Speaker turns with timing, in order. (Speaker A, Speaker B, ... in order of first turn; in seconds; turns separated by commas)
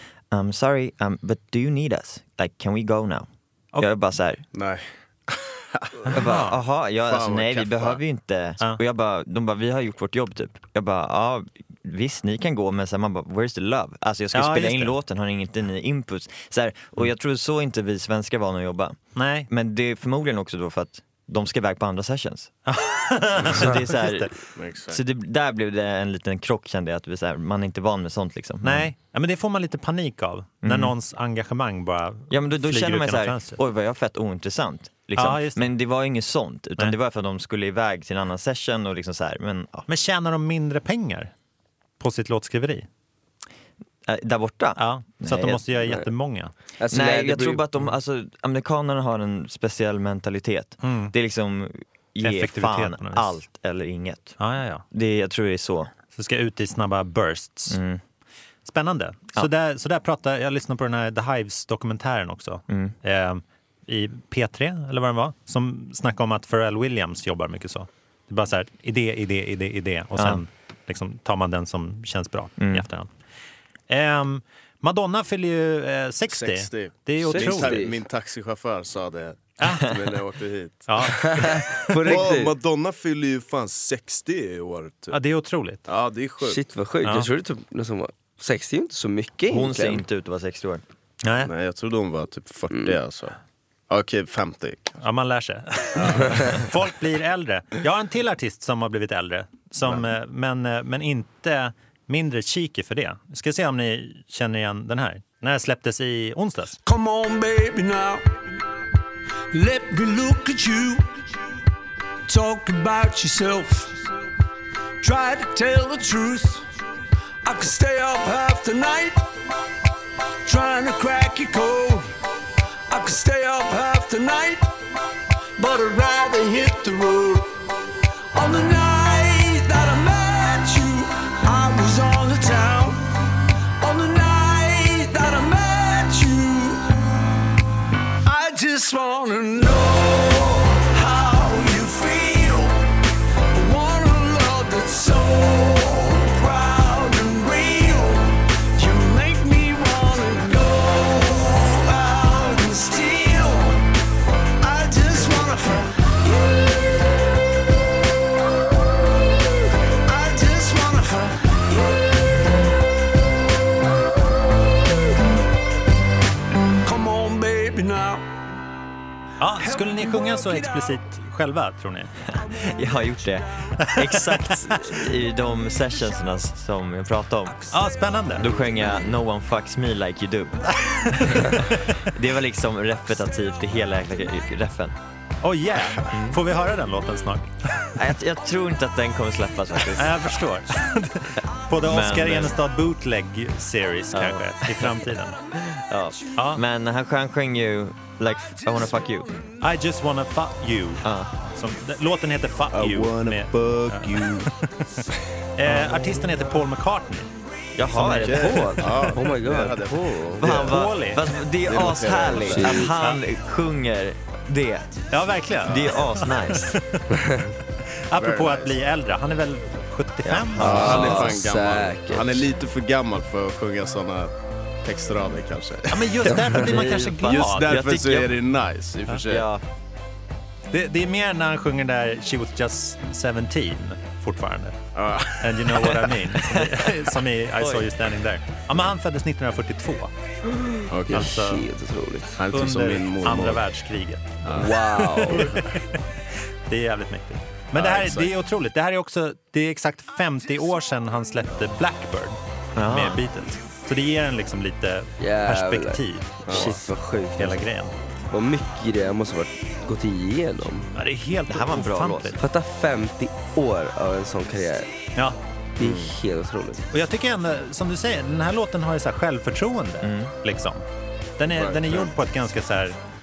Speaker A: 0.3-3.3, Speaker A: 3.8-4.4, Speaker B: 4.5-6.3, Speaker C: 6.1-6.6, Speaker A: 6.1-22.5, Speaker B: 7.0-8.0, Speaker C: 14.3-14.9, Speaker C: 19.1-19.5, Speaker C: 22.7-24.3, Speaker A: 23.4-24.3, Speaker B: 24.6-25.0, Speaker A: 24.9-28.9, Speaker C: 28.6-33.6, Speaker A: 30.6-30.9, Speaker A: 32.3-39.9, Speaker C: 35.2-35.6, Speaker C: 39.9-41.3, Speaker C: 42.0-42.9, Speaker A: 44.0-45.6, Speaker C: 44.8-46.5, Speaker D: 46.8-47.6, Speaker A: 46.9-54.4, Speaker C: 50.8-51.1, Speaker C: 52.2-53.4, Speaker C: 54.4-54.8, Speaker A: 54.9-55.9, Speaker C: 56.1-57.8, Speaker A: 57.7-58.0, Speaker C: 58.6-73.1, Speaker A: 62.7-62.9, Speaker A: 70.2-70.4, Speaker A: 72.6-72.8, Speaker C: 73.9-77.8, Speaker B: 76.3-81.3, Speaker D: 77.2-78.0, Speaker C: 79.6-79.9, Speaker C: 80.9-81.9, Speaker D: 81.2-82.5, Speaker B: 82.0-85.2, Speaker C: 85.1-85.8, Speaker B: 85.9-86.6, Speaker D: 86.4-90.0, Speaker A: 89.5-90.8, Speaker C: 91.2-91.5, Speaker B: 91.4-93.3, Speaker D: 92.7-93.0, Speaker B: 93.9-95.0, Speaker C: 95.0-106.8, Speaker B: 95.9-96.7, Speaker E: 106.8-108.2, Speaker E: 109.5-111.1, Speaker E: 112.3-114.0, Speaker E: 115.0-116.7, Speaker E: 117.4-119.2, Speaker E: 120.4-122.1, Speaker E: 122.9-124.7, Speaker E: 125.6-127.7, Speaker E: 128.3-133.0, Speaker E: 133.8-136.9, Speaker E: 138.2-142.8, Speaker E: 143.5-153.8, Speaker E: 154.6-156.6, Speaker E: 160.1-162.1, Speaker E: 166.8-168.2, Speaker C: 169.4-172.1, Speaker E: 169.6-170.9, Speaker A: 172.3-177.7, Speaker C: 173.8-174.8, Speaker C: 177.7-178.5, Speaker A: 178.3-184.9, Speaker C: 180.8-182.0, Speaker C: 185.4-187.9, Speaker A: 186.1-186.4, Speaker A: 187.9-190.4, Speaker C: 189.9-195.4, Speaker A: 191.8-192.6, Speaker A: 194.1-199.3, Speaker C: 196.3-196.6, Speaker C: 199.6-204.8, Speaker A: 201.0-201.3, Speaker B: 202.7-204.5, Speaker C: 205.6-207.3, Speaker A: 207.8-208.9, Speaker C: 207.9-208.8, Speaker B: 208.2-210.8, Speaker D: 208.6-210.5, Speaker A: 210.4-215.0, Speaker C: 210.7-211.2, Speaker B: 211.6-212.8, Speaker D: 212.5-212.9, Speaker C: 215.1-217.2, Speaker A: 215.6-216.7, Speaker C: 218.1-220.9, Speaker B: 218.1-218.8, Speaker A: 220.2-221.4, Speaker D: 220.6-222.5, Speaker B: 220.6-224.3, Speaker B: 224.8-226.6, Speaker C: 225.9-227.7, Speaker A: 226.3-228.4, Speaker B: 227.2-229.4, Speaker A: 229.3-229.6, Speaker C: 230.7-234.8, Speaker B: 234.9-236.1, Speaker C: 235.4-240.1, Speaker A: 236.5-236.7, Speaker A: 237.6-237.8, Speaker B: 240.9-241.3, Speaker D: 241.1-242.4, Speaker C: 241.1-241.6, Speaker B: 242.4-243.6, Speaker C: 242.5-246.0, Speaker B: 244.4-244.7, Speaker D: 244.6-245.5, Speaker B: 245.3-245.5, Speaker C: 246.7-256.8, Speaker B: 247.7-248.3, Speaker A: 252.8-253.2, Speaker D: 255.2-257.6, Speaker B: 256.5-256.8, Speaker C: 257.4-257.9, Speaker D: 258.3-260.9, Speaker C: 260.9-262.4, Speaker A: 261.5-262.4, Speaker D: 262.4-264.9, Speaker D: 265.8-266.8, Speaker B: 265.8-266.1, Speaker C: 266.9-270.8, Speaker A: 270.0-270.3, Speaker C: 271.4-273.0, Speaker B: 271.5-272.1